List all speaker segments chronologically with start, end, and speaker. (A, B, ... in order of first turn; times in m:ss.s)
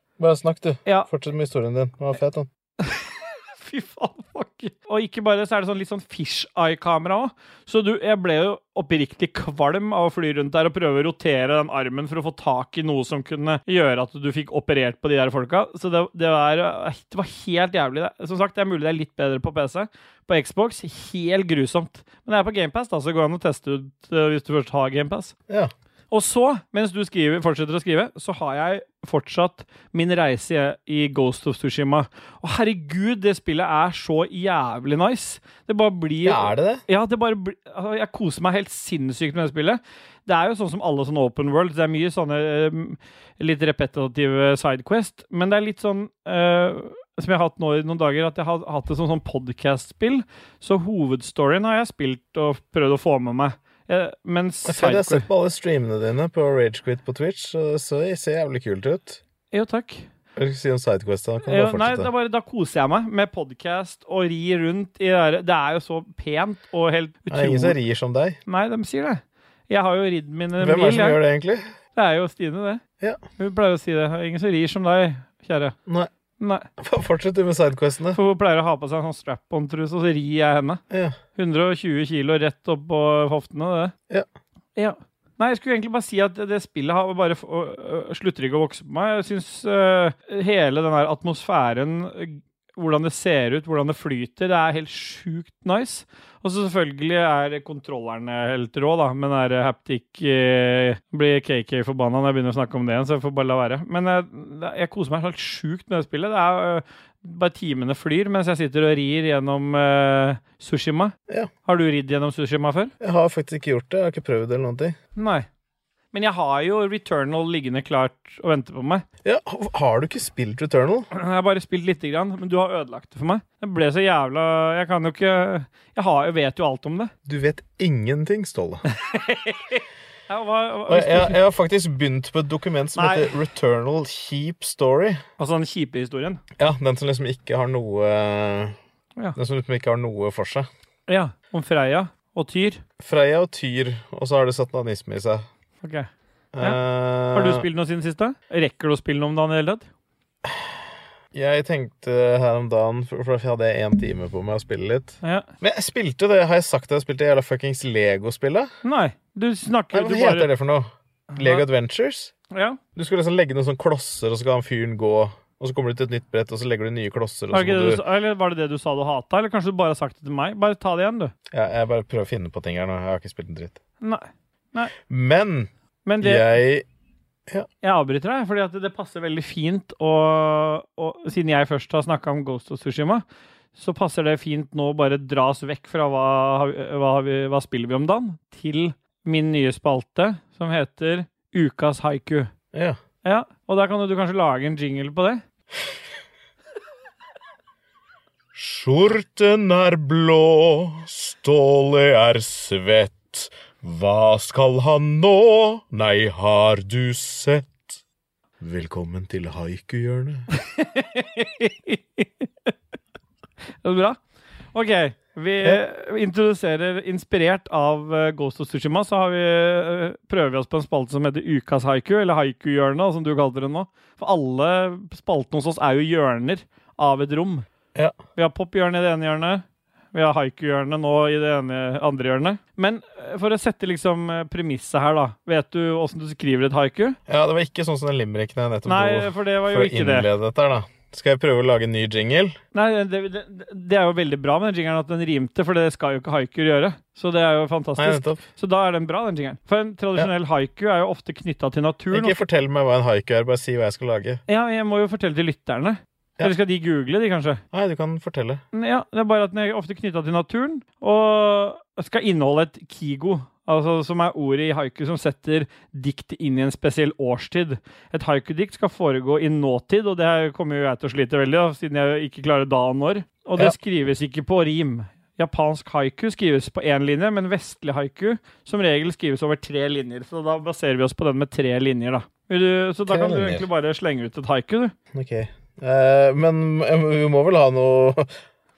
0:00.2-0:02.5 A
0:02.8-0:25.3 B
0:26.1-0:55.3 B
0:36.2-0:36.8 A
0:54.6-0:59.2 A
0:59.5-1:00.1 B
1:00.4-1:02.1 A
1:01.4-1:07.8 B
1:07.3-1:08.4 A
1:08.5-1:11.2 B
1:10.6-1:11.7 A
1:12.0-1:12.8 B
1:13.4-1:15.8 B
1:16.4-1:16.7 B
1:16.8-1:18.2 A
1:18.1-1:20.8 B
1:20.9-1:21.2 A
1:21.4-1:23.9 B
1:24.8-1:52.9 B
1:53.0-1:55.0 A
1:55.2-1:55.5 B
1:56.1-1:59.0 B
1:59.2-2:01.1 A
2:01.1-2:07.1 B
2:07.3-2:08.8 A
2:08.9-2:11.4 B
2:10.9-2:15.2 A
2:13.0-2:13.3 B
2:15.4-2:16.4 B
2:16.6-2:18.8 A
2:19.4-2:20.7 A
2:21.1-2:22.8 B
2:23.0-2:25.5 A
2:25.8-2:26.1 B
2:26.5-2:27.7 A
2:27.3-2:29.9 B
2:30.4-2:30.7 A
2:31.3-2:38.7 A
2:35.2-2:35.5 B
2:38.8-2:40.5 B
2:39.9-2:42.3 A
2:41.3-2:41.7 B
2:42.5-2:42.8 B
2:43.0-2:48.0 A
2:47.5-2:51.3 B
2:51.5-2:53.8 A
2:54.0-2:54.9 B
2:55.1-2:56.8 A
2:56.0-2:56.6 B
2:57.8-3:03.2 B
3:03.8-3:12.5 B
3:12.7-3:13.0 A
3:13.2-3:15.4 B
3:18.5-3:28.0 A
3:28.6-3:30.5 A
3:30.6-3:32.7 B
3:33.8-3:34.2 B
3:34.7-3:47.7 B
3:48.4-3:57.2 B
3:57.3-4:02.6 A
3:58.9-4:00.3 B
4:02.7-4:12.4 B
4:08.0-4:08.4 A
4:12.1-4:14.4 A
4:14.5-4:17.6 B
4:17.7-4:18.6 A
4:18.7-4:45.0 B
4:43.1-4:43.7 A
4:45.1-4:48.4 A